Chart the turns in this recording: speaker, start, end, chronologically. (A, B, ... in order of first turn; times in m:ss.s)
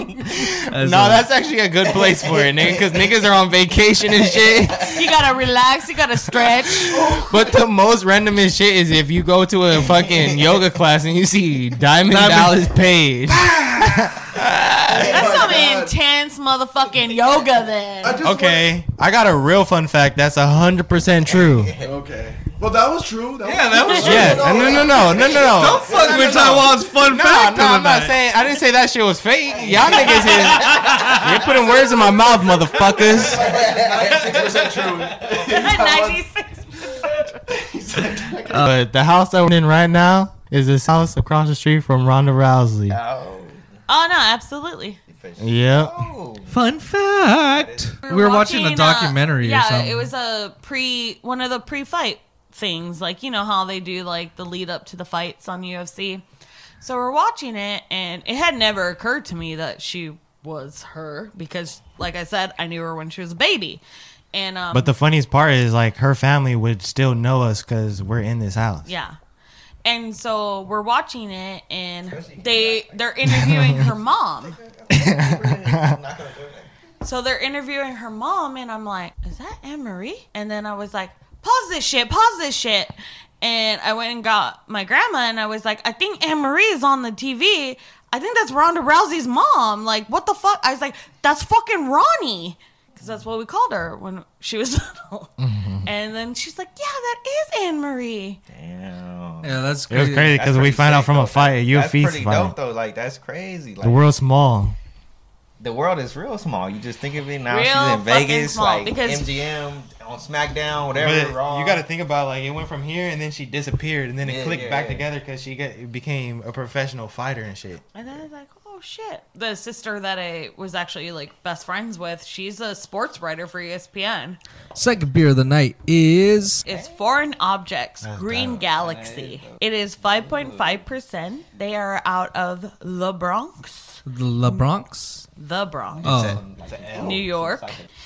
0:00.2-0:05.0 A
0:00.7-0:01.3 B
0:01.9-0:03.3 C
0:04.1-0:05.0 C
0:04.9-0:06.8 D
0:06.3-0:15.4 A
0:06.9-0:07.5 C
0:09.7-0:10.7 C
0:12.1-0:12.6 C
0:14.9-0:15.9 E
0:14.9-0:15.3 C
0:15.1-0:18.2 D
0:18.0-0:18.7 E
0:18.2-0:21.7 A
0:21.2-0:21.9 C
0:21.8-0:26.9 E
0:23.4-0:24.7 B
0:23.8-0:33.5 A
0:24.3-0:25.7 C
0:25.5-0:28.2 B
0:29.5-0:35.5 C
0:30.3-0:31.2 B
0:31.7-0:36.2 E
0:35.3-0:37.1 D
0:37.7-0:38.5 C
0:38.5-0:43.0 A
0:42.9-0:43.7 C
0:43.9-0:45.0 D
0:45.1-0:46.5 C
0:45.4-0:46.1 A
0:46.5-0:50.1 B
0:47.5-0:48.0 C
0:48.0-0:56.2 D
0:56.8-1:03.8 D
1:04.3-1:04.9 D
1:04.7-1:08.9 A
1:08.8-1:09.2 D
1:09.8-1:14.6 D
1:12.1-1:13.1 C
1:13.2-1:13.8 A
1:14.4-1:16.7 C
1:14.9-1:16.0 A
1:17.0-1:38.4 D
1:35.4-1:35.9 A
1:38.5-1:39.6 C
1:39.4-1:40.4 B
1:39.9-1:42.5 A
1:40.3-1:44.0 C
1:43.8-1:44.8 A
1:45.6-1:51.8 C
1:47.5-1:49.3 D
1:50.9-1:57.8 A
1:54.2-1:55.1 C
1:57.9-2:04.4 D
2:04.7-2:06.6 B
2:06.6-2:14.7 D
2:06.6-2:07.0 C
2:08.0-2:08.6 A
2:08.6-2:10.8 C
2:14.0-2:15.3 B
2:15.4-2:16.2 D
2:16.0-2:17.9 C
2:16.0-2:16.4 B
2:16.9-2:17.8 D